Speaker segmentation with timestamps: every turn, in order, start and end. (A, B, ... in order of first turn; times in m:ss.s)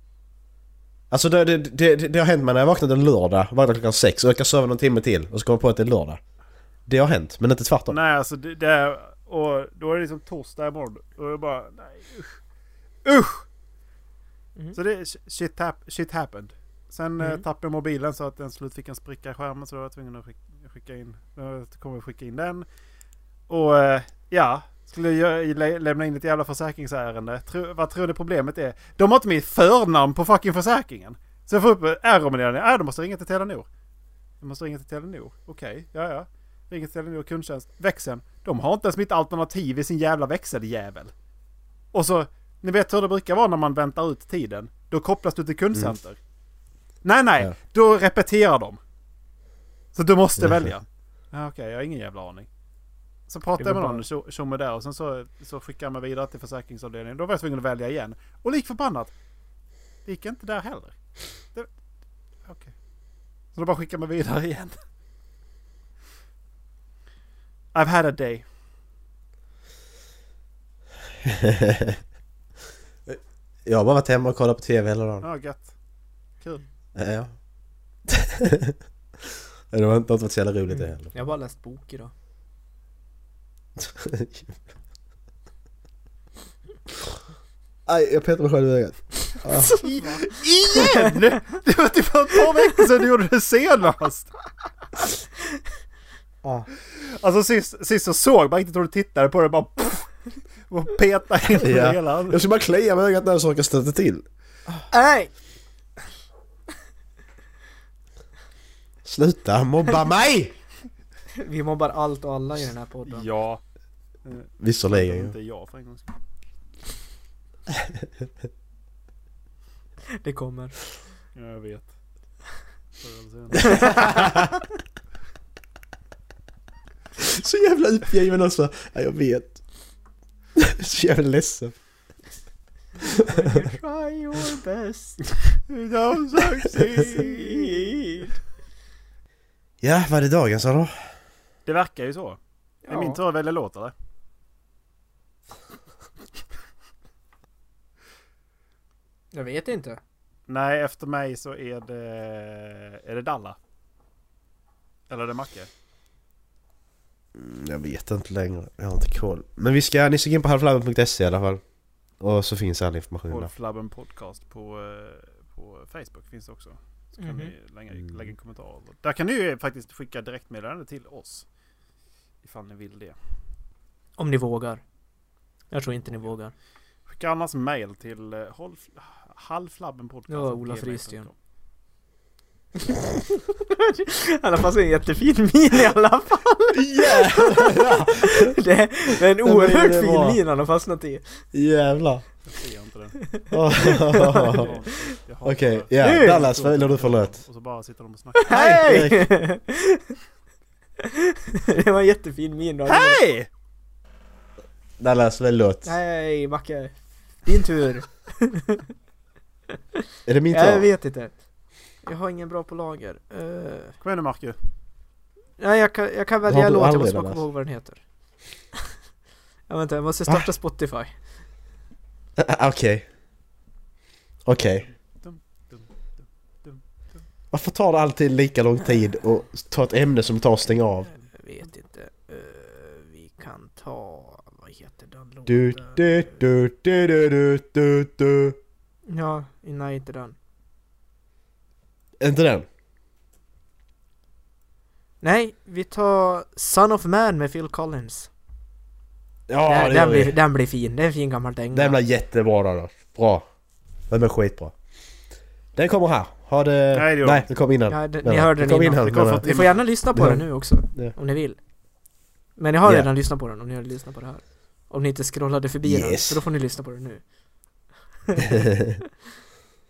0:01.1-0:06.2 A
0:06.9-0:08.0 A
0:07.9-0:12.4 B
0:13.0-0:13.4 B
0:14.7-0:22.7 B
0:23.5-0:33.7 B
0:34.4-0:41.1 B
0:41.9-0:46.2 B
0:47.0-0:48.8 B
0:50.0-0:52.5 B
0:50.4-0:50.7 A
0:53.3-0:59.1 B
0:53.6-0:54.0 C
1:00.1-1:01.0 B
1:02.4-1:02.7 B
1:03.6-1:04.8 B
1:07.7-1:08.5 B
1:11.2-1:12.0 A
1:13.1-1:15.3 A
1:15.2-1:15.7 B
1:17.0-1:17.3 A
1:18.1-1:18.8 A
1:19.7-1:21.1 A
1:20.7-1:22.1 C
1:23.8-1:24.5 A
1:27.9-1:29.8 A
1:29.5-1:31.1 C
1:29.7-1:34.3 B
1:36.9-1:42.4 B
1:41.6-1:44.2 A
1:44.9-1:45.3 C
1:49.0-1:50.5 A
1:51.4-1:53.3 C
1:53.1-1:53.6 B
1:54.2-1:56.1 B
1:54.6-1:55.3 A
2:00.2-2:00.8 C
2:01.4-2:01.9 B
2:03.0-2:04.4 B
2:03.7-2:04.5 A
2:03.8-2:04.1 C
2:07.2-2:09.6 A
2:10.6-2:11.7 A
2:13.2-2:15.2 C
2:15.7-2:18.0 B
2:17.0-2:18.4 C
2:19.8-2:20.9 A
2:21.7-2:23.9 B
2:22.8-2:23.2 C
2:29.3-2:30.0 C
2:30.5-2:33.6 B
2:35.1-2:35.7 B
2:37.4-2:41.6 A
2:42.2-2:43.5 A
2:43.3-2:51.5 B
2:47.2-2:47.5 C
2:52.4-2:53.2 B
2:54.2-2:54.8 C
2:55.7-2:56.5 C
2:57.1-3:01.3 B
3:00.3-3:01.3 C
3:03.5-3:11.4 C
3:06.7-3:08.6 A
3:09.4-3:10.4 A
3:11.5-3:12.2 A
3:12.4-3:13.2 B
3:13.2-3:14.8 C
3:13.5-3:14.8 A
3:14.2-3:18.8 B
3:15.4-3:17.4 A
3:16.0-3:16.4 C
3:18.5-3:20.2 C
3:18.5-3:19.3 A
3:21.0-3:23.2 C
3:22.9-3:23.5 B
3:25.0-3:25.9 A
3:25.8-3:28.8 C
3:30.3-3:30.9 A
3:30.5-3:31.4 C
3:32.0-3:34.0 C
3:34.0-3:34.6 B
3:35.6-3:38.0 C
3:36.5-3:37.4 A
3:39.7-3:41.1 C
3:42.4-3:43.1 A
3:44.5-3:44.8 A
3:45.2-3:47.2 B
3:47.5-3:51.1 A
3:51.1-3:56.4 C
3:55.5-3:58.6 A
3:59.1-4:00.4 C
4:02.2-4:02.7 A
4:05.2-4:08.3 C
4:09.5-4:10.4 A
4:09.7-4:12.0 C
4:11.7-4:13.5 A
4:14.1-4:14.7 A
4:15.8-4:21.1 A
4:16.9-4:17.5 B
4:17.9-4:21.6 C
4:19.0-4:19.8 B
4:22.6-4:27.2 C
4:22.8-4:23.1 A
4:25.8-4:26.4 A
4:28.3-4:28.6 C
4:28.5-4:29.0 A